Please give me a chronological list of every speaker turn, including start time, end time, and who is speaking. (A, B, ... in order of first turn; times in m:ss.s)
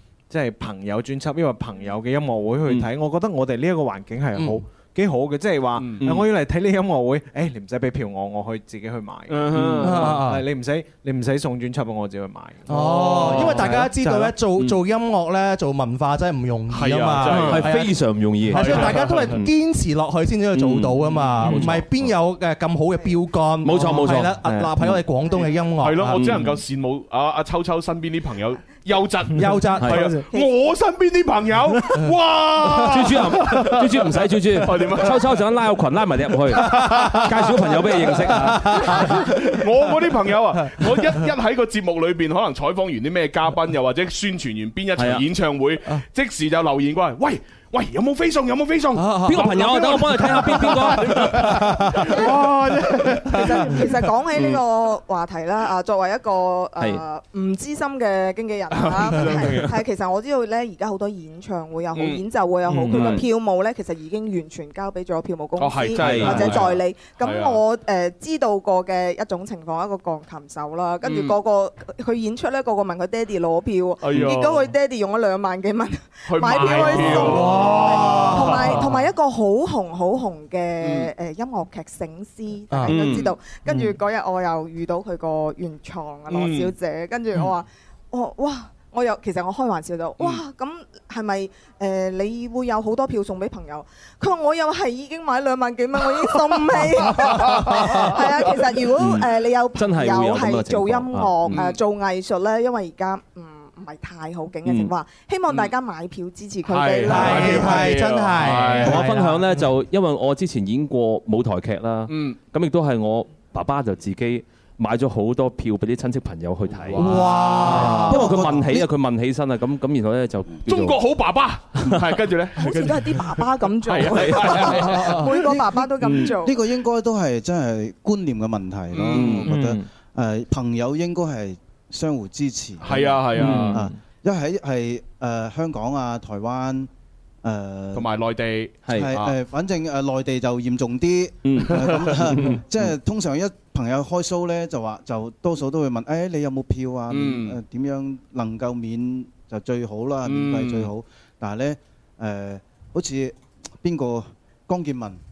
0:00.3-0:14.4 A
0:05.8-0:06.1 B
0:09.3-0:10.2 B
0:09.8-0:10.4 C
0:12.7-0:26.2 C
0:12.7-0:13.9 B
0:16.7-0:17.7 B
0:17.3-0:17.7 A
0:17.4-0:19.5 D
0:18.5-0:19.4 B
0:20.5-0:22.1 D
0:21.4-0:21.6 B
0:23.6-0:25.0 D
0:25.4-0:34.0 B
0:26.1-0:26.6 D
0:29.3-0:30.2 C
0:30.3-0:30.6 E
0:32.8-0:39.0 D
0:34.6-0:35.3 B
0:36.6-0:37.4 B
0:36.7-0:37.2 C
0:38.3-0:39.4 C
0:38.3-0:53.8 B
0:45.0-0:45.2 D
0:48.9-0:52.3 C
0:49.2-0:51.4 D
0:53.0-0:53.4 C
0:53.4-1:47.8 E
0:58.7-0:59.7 B
1:01.9-1:02.2 B
1:02.7-1:03.2 A
1:02.9-1:03.2 D
1:05.6-1:07.6 B
1:06.0-1:06.6 D
1:11.0-1:11.4 B
1:14.0-1:14.7 B
1:16.3-1:18.9 B
1:17.1-1:18.8 C
1:20.8-1:21.1 B
1:22.7-1:23.0 C
1:22.9-1:23.3 D
1:26.3-1:26.7 B
1:37.1-1:38.2 B
1:39.0-1:41.6 D
1:41.5-1:41.8 B
1:44.6-1:44.9 D
1:46.7-1:49.0 B
1:47.1-1:49.7 C
1:48.8-2:01.0 D
1:52.1-1:52.4 B
1:56.9-1:57.9 B
1:57.0-1:58.3 C
1:57.5-1:58.0 A
1:58.1-1:58.9 F
2:00.6-2:05.3 B
2:02.6-2:06.6 E
2:06.3-2:13.1 F
2:08.9-2:09.5 B
2:09.1-2:09.5 D
2:09.4-2:09.9 A
2:12.8-2:13.8 B
2:13.4-2:14.0 A
2:13.4-2:13.7 D
2:13.7-2:16.9 F
2:17.4-2:18.1 F
2:17.9-2:19.3 B
2:18.8-2:19.1 D
2:18.9-2:35.2 F
2:21.4-2:22.6 D
2:27.1-2:27.6 B
2:30.2-2:30.9 B